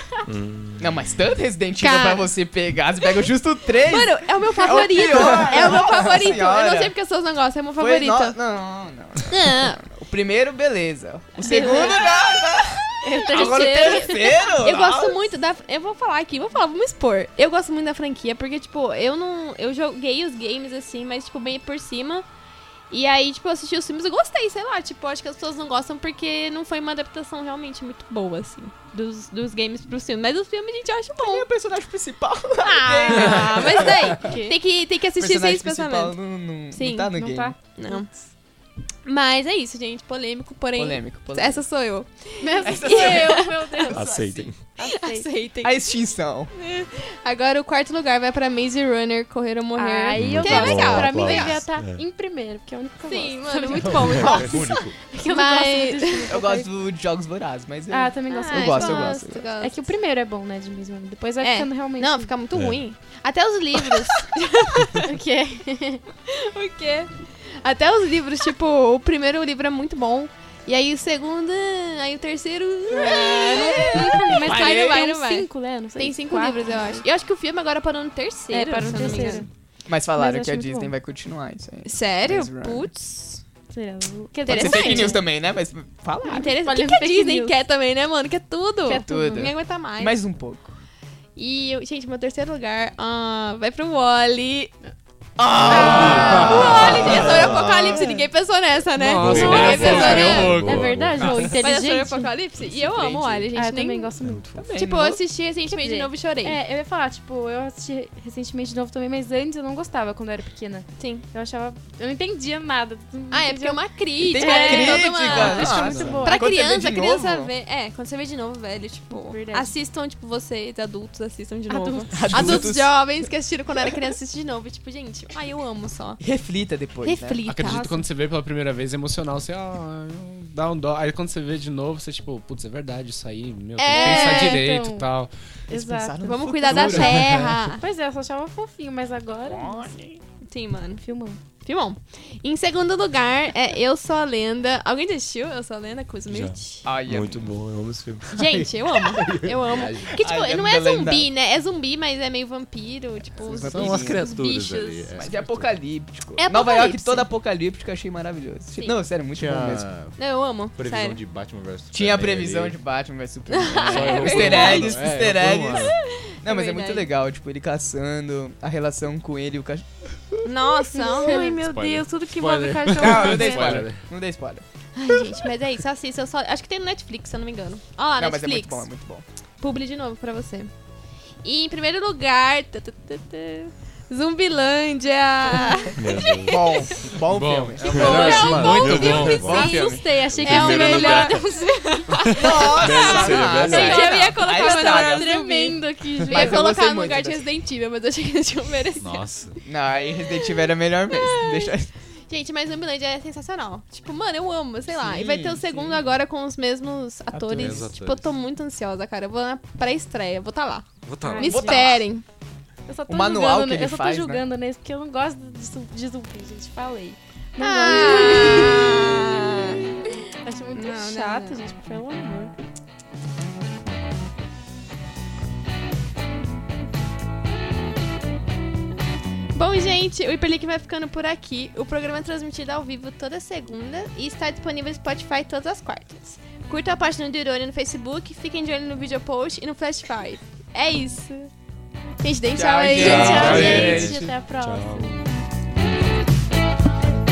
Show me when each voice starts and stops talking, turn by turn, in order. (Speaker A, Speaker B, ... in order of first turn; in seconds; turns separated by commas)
Speaker A: 0.3-1.1, Speaker B: 0.8-6.9, Speaker C: 1.8-2.3, Speaker C: 3.8-8.4, Speaker B: 7.8-15.2, Speaker C: 9.3-9.8, Speaker C: 11.4-12.4, Speaker D: 11.5-11.9, Speaker D: 13.0-14.4, Speaker C: 13.2-22.2, Speaker C: 22.9-31.5, Speaker B: 31.2-34.4, Speaker C: 32.6-36.2, Speaker D: 33.3-34.5, Speaker B: 35.2-37.6, Speaker C: 36.7-37.1, Speaker D: 37.1-38.3, Speaker C: 37.7-38.1, Speaker C: 39.0-44.0, Speaker B: 40.8-41.6, Speaker D: 42.4-45.3, Speaker B: 42.6-43.5, Speaker A: 43.9-44.6, Speaker C: 44.8-45.9, Speaker B: 45.6-46.5, Speaker C: 46.5-51.6, Speaker D: 49.8-56.7, Speaker A: 50.2-52.0, Speaker C: 53.1-56.3, Speaker E: 53.8-55.0, Speaker B: 56.3-59.4, Speaker D: 57.9-62.3, Speaker C: 58.3-59.9, Speaker C: 61.4-65.1, Speaker A: 62.5-62.8, Speaker D: 65.0-66.0, Speaker C: 66.3-79.5, Speaker D: 72.9-77.0, Speaker B: 73.9-74.9, Speaker D: 78.5-79.5, Speaker B: 78.9-82.9, Speaker D: 80.2-81.0, Speaker C: 81.8-83.4, Speaker D: 83.7-85.2, Speaker B: 84.5-86.4, Speaker C: 84.5-85.2, Speaker D: 86.3-87.6, Speaker C: 86.3-90.2, Speaker D: 88.9-89.5, Speaker B: 89.1-90.8, Speaker C: 91.4-94.7, Speaker B: 95.4-98.3, Speaker C: 95.7-100.6, Speaker E: 95.7-97.8, Speaker D: 96.5-97.0, Speaker F: 99.0-100.9, Speaker E: 99.1-101.6, Speaker D: 99.5-102.3, Speaker B: 99.9-100.3, Speaker C: 101.4-104.1, Speaker B: 102.8-103.4, Speaker D: 103.5-104.6, Speaker B: 104.5-105.2, Speaker C: 104.8-106.6, Speaker D: 105.7-116.5, Speaker C: 111.0-111.2, Speaker C: 113.3-126.2, Speaker B: 114.3-117.5, Speaker E: 115.5-116.2, Speaker D: 119.1-119.7, Speaker D: 121.7-122.7, Speaker B: 122.1-123.0, Speaker B: 126.2-127.4, Speaker C: 127.0-127.9, Speaker F: 127.5-135.3, Speaker D: 127.6-128.0, Speaker C: 133.8-134.6, Speaker D: 133.9-135.1, Speaker D: 135.7-137.1, Speaker B: 135.7-137.5, Speaker C: 136.2-137.8, Speaker F: 137.1-137.5, Speaker D: 137.7-139.9, Speaker B: 139.5-140.2, Speaker C: 140.5-141.0, Speaker D: 141.0-141.4, Speaker C: 141.6-146.8, Speaker A: 146.3-148.3, Speaker B: 146.9-147.5, Speaker C: 148.3-155.1, Speaker E: 148.4-150.2, Speaker B: 150.2-151.3, Speaker E: 153.4-155.9, Speaker B: 153.4-154.4, Speaker B: 155.2-160.0, Speaker C: 156.4-157.3, Speaker E: 159.3-160.2, Speaker C: 160.1-161.2, Speaker E: 160.8-162.8, Speaker B: 161.9-169.8, Speaker C: 163.5-165.0, Speaker E: 163.9-165.9, Speaker F: 163.9-165.7, Speaker C: 165.7-167.1, Speaker C: 170.4-173.9, Speaker D: 170.9-171.5, Speaker E: 171.3-174.1, Speaker B: 172.9-174.7, Speaker C: 174.9-178.9, Speaker B: 178.2-179.2, Speaker C: 179.6-180.7, Speaker C: 181.4-187.1, Speaker A: 186.0-186.6, Speaker B: 186.5-190.8, Speaker F: 187.3-189.6, Speaker E: 187.8-189.6, Speaker C: 187.8-199.2, Speaker D: 189.6-192.4, Speaker A: 190.4-191.3, Speaker E: 190.4-191.3, Speaker B: 192.3-195.3, Speaker A: 192.5-194.3, Speaker E: 193.1-193.7, Speaker D: 193.8-196.6, Speaker B: 196.2-197.4, Speaker E: 199.0-199.6, Speaker B: 199.7-201.9, Speaker C: 200.3-201.7, Speaker C: 202.3-210.9, Speaker B: 204.9-206.1, Speaker B: 207.3-207.9, Speaker E: 207.5-208.3, Speaker E: 211.0-211.8, Speaker D: 211.2-211.8, Speaker C: 211.4-212.2, Speaker B: 211.4-212.0, Speaker D: 212.9-218.8, Speaker B: 213.1-214.4, Speaker C: 217.6-220.1, Speaker D: 220.4-222.5, Speaker C: 220.7-221.6, Speaker C: 229.5-241.5, Speaker C: 242.2-243.8, Speaker B: 242.5-244.3, Speaker A: 243.0-245.2, Speaker D: 243.0-245.2, Speaker E: 243.4-244.0